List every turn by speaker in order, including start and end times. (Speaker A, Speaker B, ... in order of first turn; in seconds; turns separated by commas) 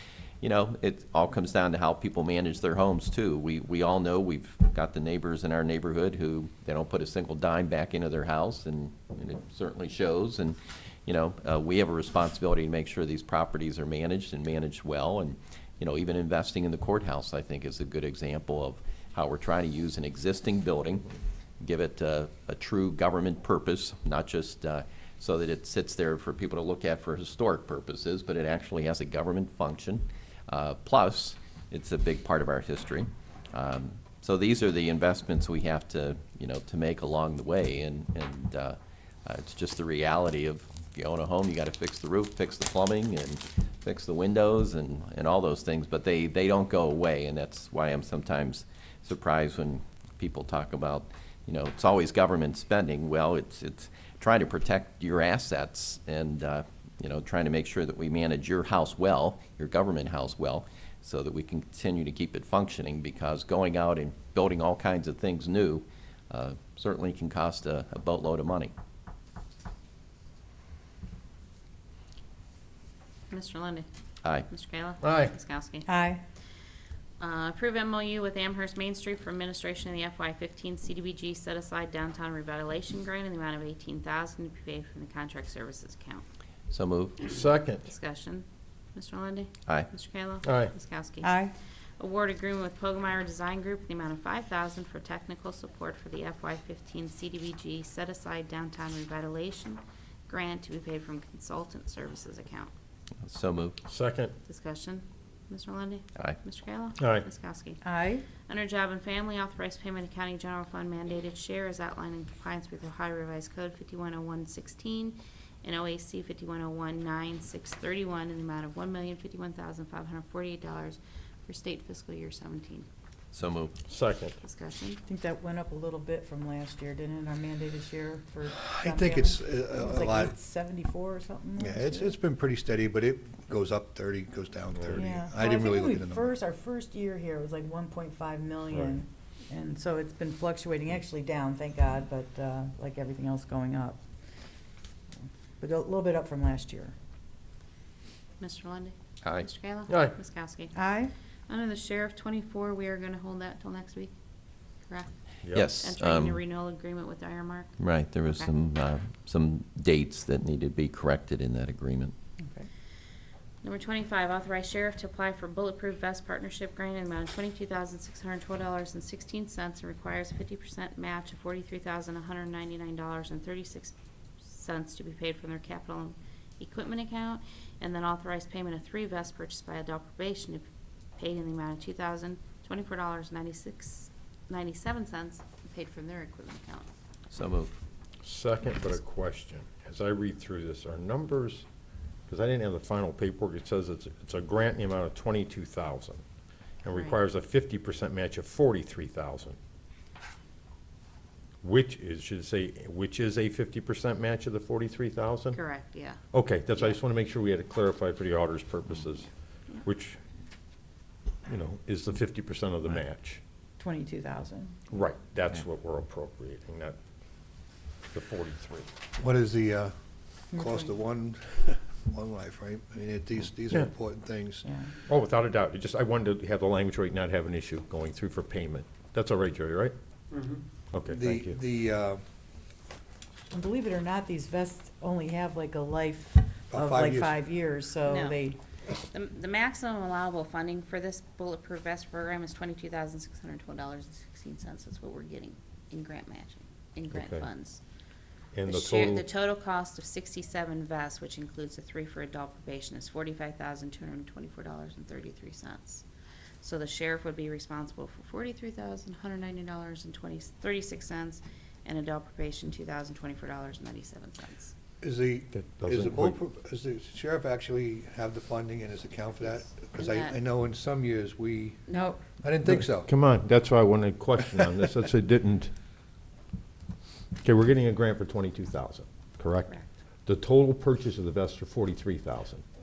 Speaker A: 0.4-68.7, Speaker B: 73.3-73.9, Speaker B: 74.5-75.9, Speaker C: 75.0-75.3, Speaker D: 75.9-76.2, Speaker B: 77.2-86.2, Speaker A: 86.7-87.3, Speaker C: 87.2-87.8, Speaker B: 87.8-91.4, Speaker C: 90.4-90.7, Speaker D: 91.2-91.5, Speaker B: 92.0-102.7, Speaker A: 103.2-103.8, Speaker C: 103.9-104.3, Speaker B: 104.5-107.8, Speaker C: 107.0-107.3, Speaker D: 107.8-108.3, Speaker B: 108.5-122.9, Speaker A: 123.3-123.8, Speaker C: 123.9-124.4, Speaker B: 124.4-125.0, Speaker D: 125.1-132.2, Speaker E: 128.5-130.3, Speaker E: 131.6-136.3, Speaker D: 134.9-144.0, Speaker D: 145.6-146.9, Speaker B: 148.4-150.8, Speaker C: 149.9-150.2, Speaker D: 150.8-151.1, Speaker B: 151.5-154.1, Speaker C: 155.4-155.7, Speaker A: 155.5-156.4, Speaker B: 155.8-157.8, Speaker A: 157.8-162.1, Speaker D: 162.4-162.7, Speaker B: 163.6-180.7, Speaker B: 181.2-186.9, Speaker A: 187.3-187.8, Speaker C: 188.2-191.7, Speaker C: 192.3-196.2, Speaker C: 196.8-199.6, Speaker B: 196.9-197.2, Speaker C: 201.6-205.6, Speaker B: 205.5-206.2, Speaker C: 206.3-209.3, Speaker C: 209.8-210.2, Speaker C: 211.5-213.4, Speaker D: 213.8-214.8, Speaker C: 214.9-217.0, Speaker C: 218.1-218.9, Speaker E: 219.2-220.0, Speaker E: 220.5-224.7, Speaker D: 220.5-220.9, Speaker D: 224.6-224.9, Speaker C: 225.0-229.9, Speaker C: 230.9-231.6, Speaker E: 231.1-232.2, Speaker D: 233.5-238.6, Speaker E: 236.7-237.4, Speaker B: 238.1-238.4, Speaker B: 239.1-247.8, Speaker C: 247.1-247.5, Speaker C: 248.5-249.3, Speaker B: 248.7-256.1, Speaker B: 256.6-264.7, Speaker E: 265.0-271.8, Speaker C: 265.5-266.4, Speaker B: 269.4-270.4, Speaker B: 271.9-272.2, Speaker E: 272.4-273.1, Speaker C: 272.6-275.7, Speaker E: 274.5-274.9, Speaker C: 277.4-279.7, Speaker C: 280.3-282.6